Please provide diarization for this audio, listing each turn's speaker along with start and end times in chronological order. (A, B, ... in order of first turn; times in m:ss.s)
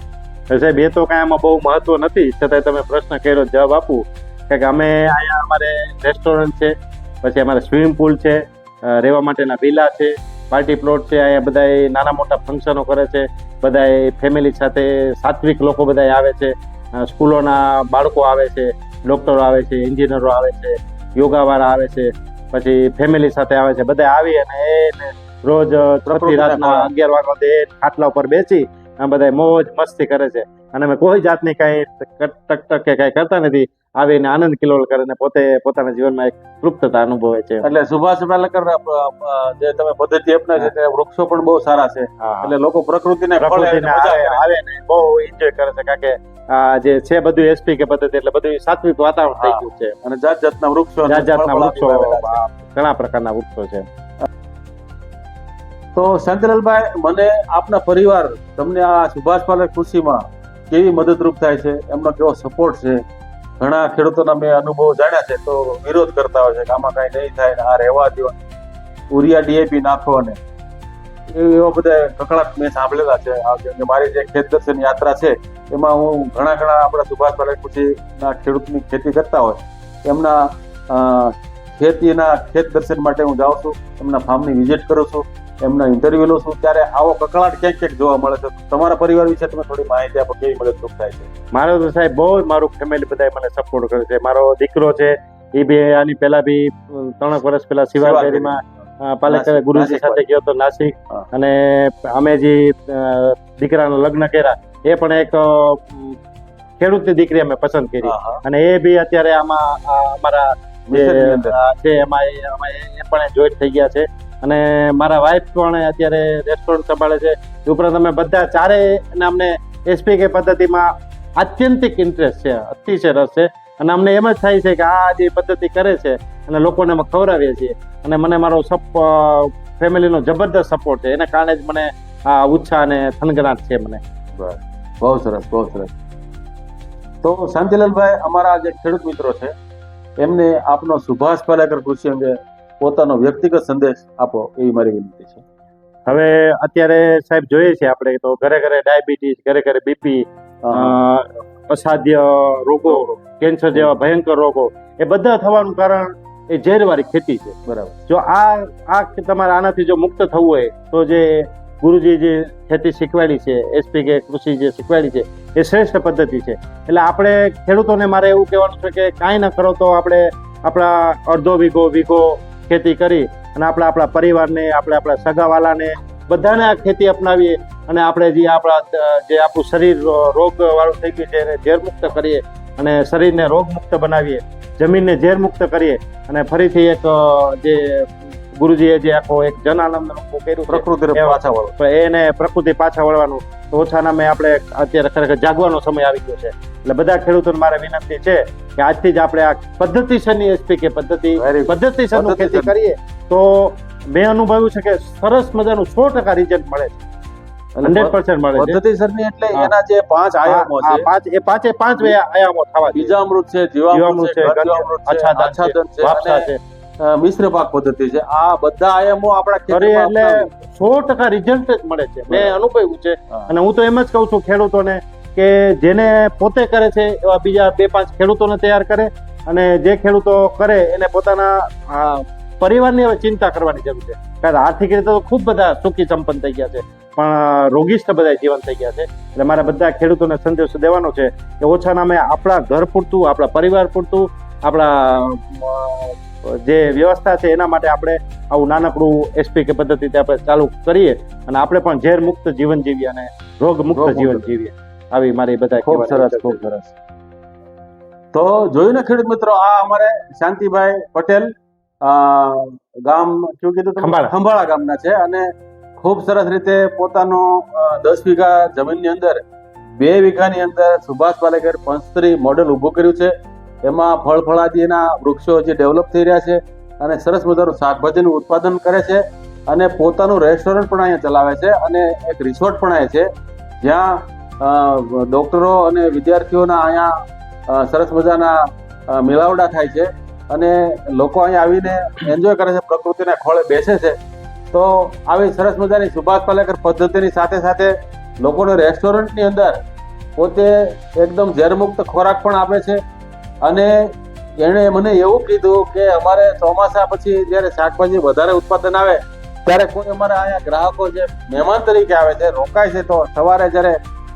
0:00.5-0:37.6 A
0:26.1-0:26.9 B
0:37.6-0:44.4 B
0:42.2-0:42.5 A
0:43.4-0:49.9 A
0:49.3-0:52.4 B
0:51.1-0:53.8 A
0:55.9-1:03.0 B
1:03.6-1:08.4 B
1:09.1-1:10.4 B
1:11.3-1:31.3 B
1:31.5-1:46.2 A
1:38.0-1:38.6 B
1:39.3-1:40.2 B
1:46.8-2:14.0 A
1:48.0-1:48.4 B
1:50.9-1:51.6 B
2:14.4-2:15.9 B
2:17.2-2:19.5 B
2:20.2-2:25.4 B
2:26.1-2:37.6 A
2:30.6-2:31.0 B
2:32.8-2:33.2 B
2:37.6-2:38.0 B
2:38.1-3:27.0 A
3:10.7-3:11.8 B
3:21.4-3:22.7 B
3:27.8-3:31.1 B
3:27.8-3:28.8 A
3:30.4-3:33.1 A
3:32.9-3:36.5 B
3:33.9-3:36.6 A
3:37.0-3:40.5 B
3:39.7-4:16.7 A
3:42.3-3:42.6 B
4:13.9-4:14.5 B
4:15.8-4:16.9 B
4:18.3-4:29.4 B
4:24.0-4:24.3 A
4:30.0-4:33.3 B
4:33.8-4:43.3 B
4:43.8-4:47.1 B
4:47.7-4:54.2 B
4:54.7-4:59.8 B
5:00.4-5:03.0 B
5:03.6-5:14.0 B